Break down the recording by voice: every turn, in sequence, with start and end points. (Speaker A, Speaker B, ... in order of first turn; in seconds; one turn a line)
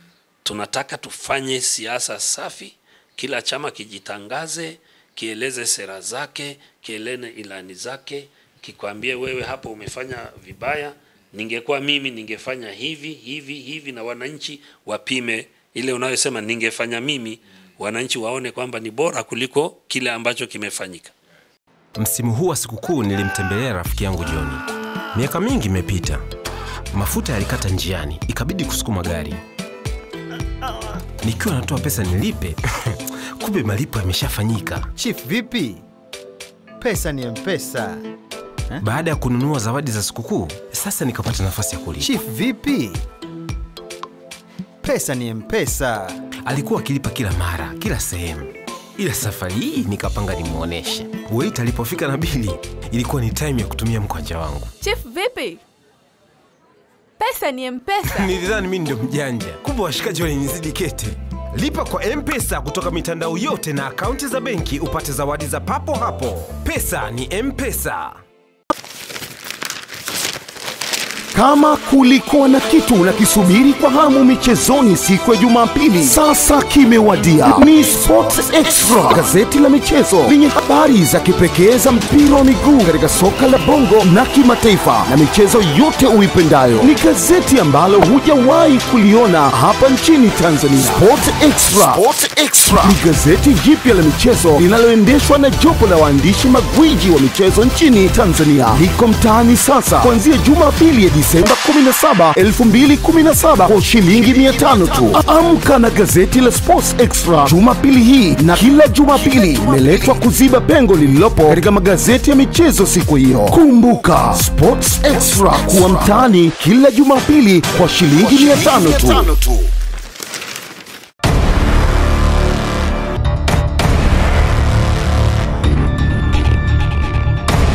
Speaker A: 0.4-21.1
Speaker B: 22.0-26.2
Speaker B: 26.9-29.4
Speaker B: 31.2-34.9
Speaker C: 35.0-35.8
Speaker C: 36.8-38.0
Speaker B: 38.8-42.1
Speaker C: 42.0-43.0
Speaker C: 44.8-46.2
Speaker B: 46.4-54.7
Speaker D: 54.8-55.6
Speaker D: 57.2-58.3
Speaker B: 58.0-68.2
Speaker E: 71.3-119.3